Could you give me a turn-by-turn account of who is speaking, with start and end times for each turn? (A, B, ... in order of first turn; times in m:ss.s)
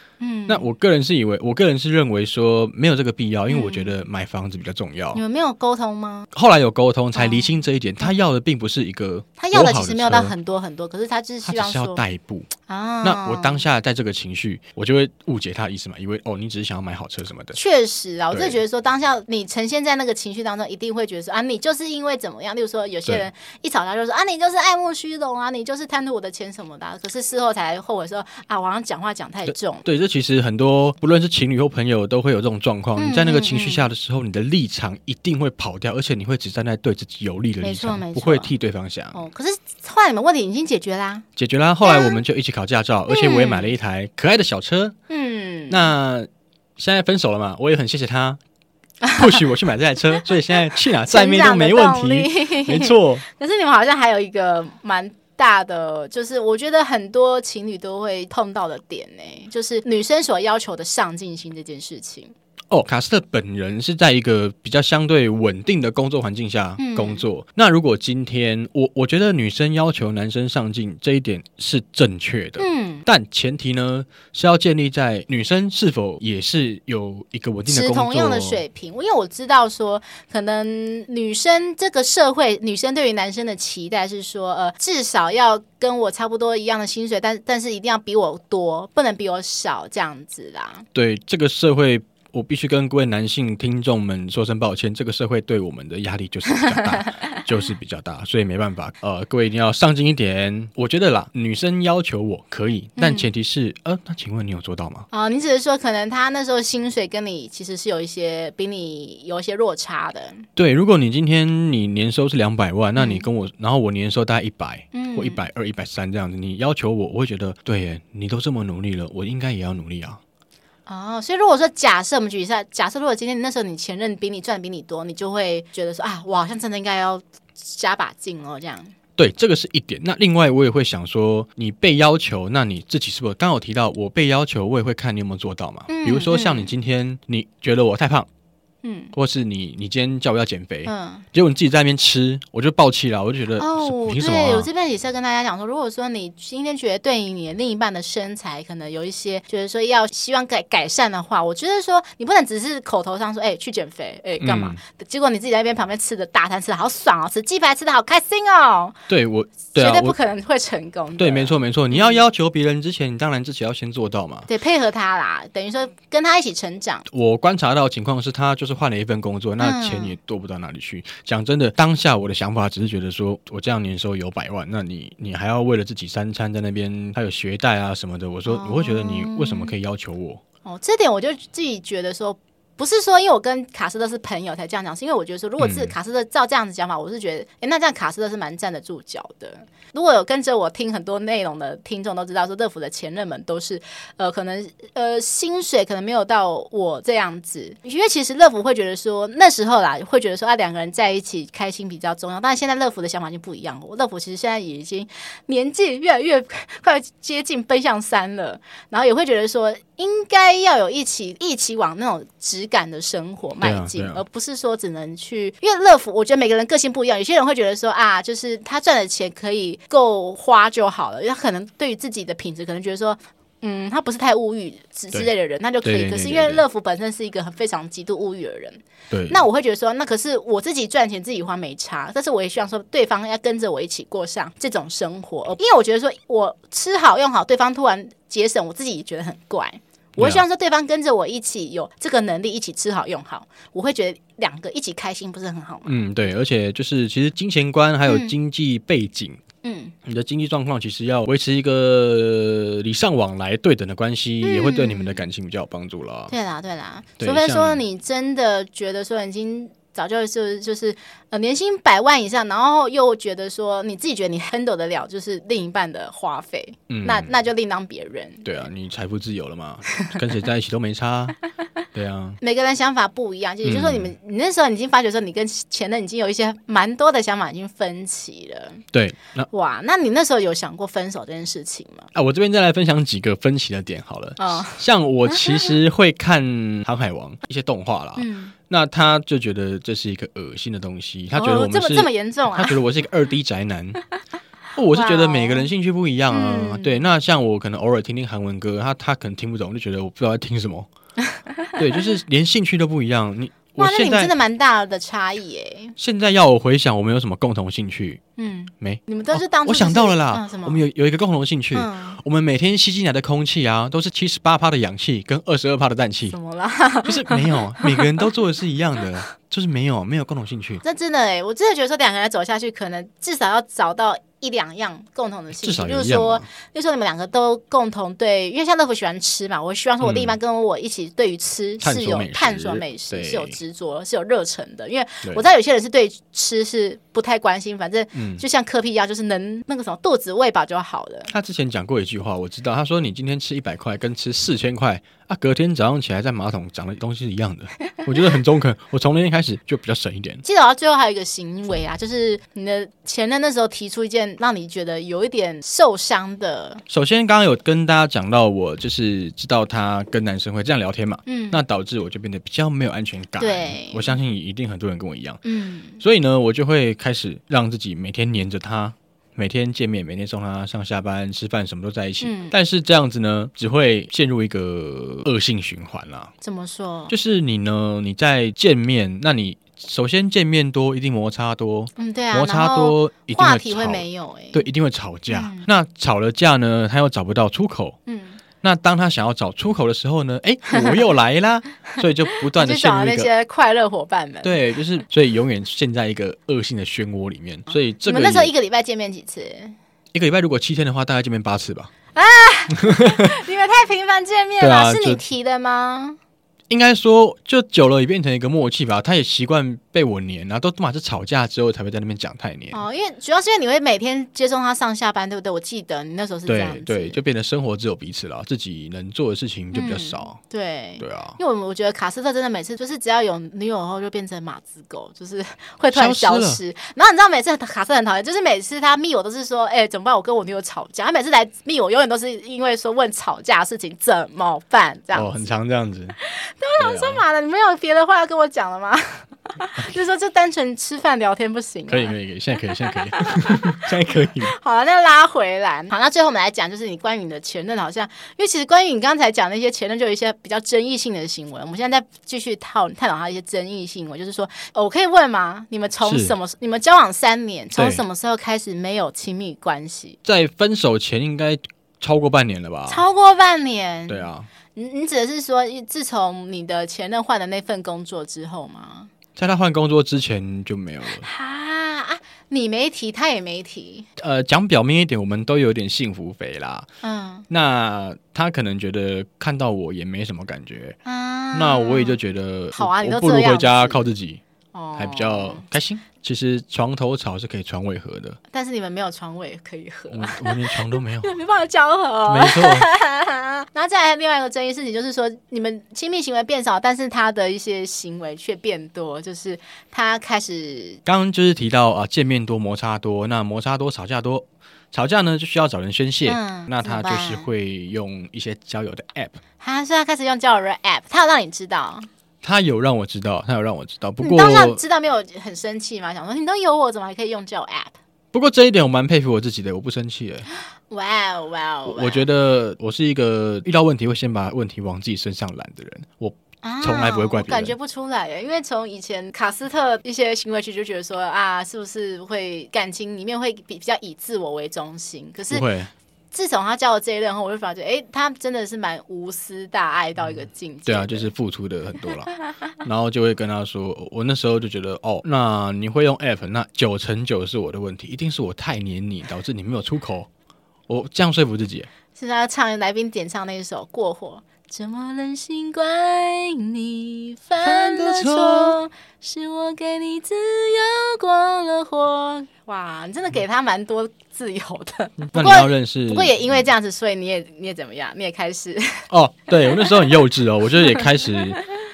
0:00.2-0:00.7 A
0:00.5-0:05.2 B
0:03.5-0:03.9 A
0:05.1-0:06.3 A
0:06.3-0:10.3 B
0:07.1-0:07.5 A
0:09.4-0:12.0 A
0:11.4-0:12.5 B
0:12.7-0:13.6 A
0:13.0-0:17.6 B
0:17.5-0:29.8 A
0:18.3-0:18.6 B
0:29.5-0:39.2 B
0:33.0-0:33.8 A
0:37.6-0:38.5 A
0:39.1-0:41.2 A
0:41.4-0:45.0 B
0:41.8-0:42.2 A
0:43.1-0:43.7 A
0:45.1-0:45.9 A
0:45.7-0:48.4 B
0:49.0-0:49.4 A
0:49.2-0:53.2 B
0:50.8-1:02.3 A
1:02.7-1:18.6 B
1:06.8-1:07.2 A
1:12.6-1:13.1 A
1:17.7-1:30.8 A
1:30.9-1:45.1 B
1:36.5-1:37.3 A
1:43.0-1:43.3 A
1:45.1-1:50.5 A
1:50.6-2:00.2 B
1:53.0-1:53.3 A
1:54.9-1:55.4 A
2:00.9-2:08.9 A
2:09.2-2:18.3 B
2:15.9-2:16.7 A
2:18.8-2:19.1 A
2:19.1-2:24.7 B
2:20.8-2:21.2 A
2:23.6-2:39.0 A
2:34.4-2:34.8 B
2:39.1-2:40.2 B
2:39.7-2:42.2 A
2:41.2-2:44.5 B
2:44.5-2:47.0 A
2:47.1-3:00.4 B
2:49.6-2:50.1 A
2:58.5-2:59.7 A
3:00.6-4:05.9 A
3:05.6-3:05.9 B
3:33.6-3:34.2 B
3:45.8-3:46.6 B
3:49.1-3:49.4 B
4:00.2-4:00.4 B
4:05.8-4:09.4 B
4:08.1-4:08.3 A
4:09.6-4:09.9 A
4:10.0-4:16.3 B
4:14.4-4:15.2 A
4:16.3-4:28.7 A
4:17.2-4:17.8 B
4:26.9-4:27.3 B
4:28.4-4:31.4 B
4:31.9-4:32.4 B
4:32.4-4:38.8 A
4:33.6-4:34.1 B
4:38.9-4:39.5 B
4:39.5-4:42.1 A
4:42.1-4:54.0 B
4:44.4-4:45.7 A
4:48.2-4:48.5 A
4:51.3-4:52.8 A
4:54.8-5:00.9 B
4:54.9-4:55.7 A
4:56.3-4:57.0 A
5:01.2-5:02.1 A
5:01.8-5:04.3 B
5:03.8-5:06.0 A
5:06.0-5:08.2 B
5:08.4-5:10.8 A
5:08.8-5:16.4 B
5:11.7-5:12.2 A
5:16.3-5:18.1 A
5:17.0-5:20.8 B
5:20.8-5:41.3 A
5:25.6-5:26.4 B
5:30.0-5:30.4 B
5:31.8-5:33.6 B
5:38.1-5:38.4 B
5:41.3-5:50.4 B
5:50.4-5:56.8 A
5:56.9-6:05.4 B
6:01.2-6:01.6 A
6:03.4-6:04.2 A
6:05.4-6:06.0 A
6:06.0-6:16.3 B
6:12.2-6:12.5 A
6:16.4-6:17.1 A
6:17.1-6:28.0 B
6:22.0-6:24.6 A
6:25.3-6:25.6 A
6:28.1-6:28.4 A
6:28.6-6:33.3 B
6:30.7-6:31.0 A
6:32.0-6:34.6 A
6:34.4-6:38.5 B
6:37.7-6:39.7 A
6:40.1-6:41.9 B
6:42.1-6:46.2 A
6:42.8-6:43.3 B
6:44.6-6:45.2 B
6:46.7-6:52.8 B
6:52.7-6:57.2 A
6:56.5-7:00.4 B
6:59.7-7:15.5 A
7:01.0-7:01.4 B
7:05.9-7:06.6 B
7:15.1-7:16.2 B
7:16.2-7:22.1 A
7:16.8-7:17.2 B
7:21.9-7:24.5 B
7:23.0-7:23.8 A
7:24.4-7:40.2 A
7:36.0-7:36.3 B
7:37.8-7:38.0 B
7:40.2-7:43.0 B
7:42.9-7:49.1 A
7:44.1-7:44.5 B
7:49.4-7:51.2 B
7:51.1-7:54.1 A
7:54.2-7:56.9 B
7:57.0-7:57.5 A
7:57.5-8:01.0 B
8:01.0-8:02.2 A
8:01.5-8:04.4 B
8:02.7-8:04.0 A
8:04.7-8:05.6 A
8:05.0-8:08.4 B
8:08.5-8:21.0 A
8:10.1-8:11.3 B
8:12.2-8:12.9 B
8:21.0-8:29.4 B
8:26.2-8:27.5 A
8:29.6-8:32.1 A
8:32.4-8:34.8 B
8:34.2-8:37.9 A
8:38.3-8:40.5 B
8:40.9-8:42.2 A
8:41.8-8:47.7 B
8:46.6-8:55.7 A
8:55.5-8:55.9 B
8:56.3-9:01.3 A
9:00.8-9:10.3 B
9:10.9-9:11.9 B
9:12.1-9:29.1 A
9:17.6-9:18.8 B
9:25.3-9:26.4 B
9:29.1-9:31.6 B
9:29.7-9:30.0 A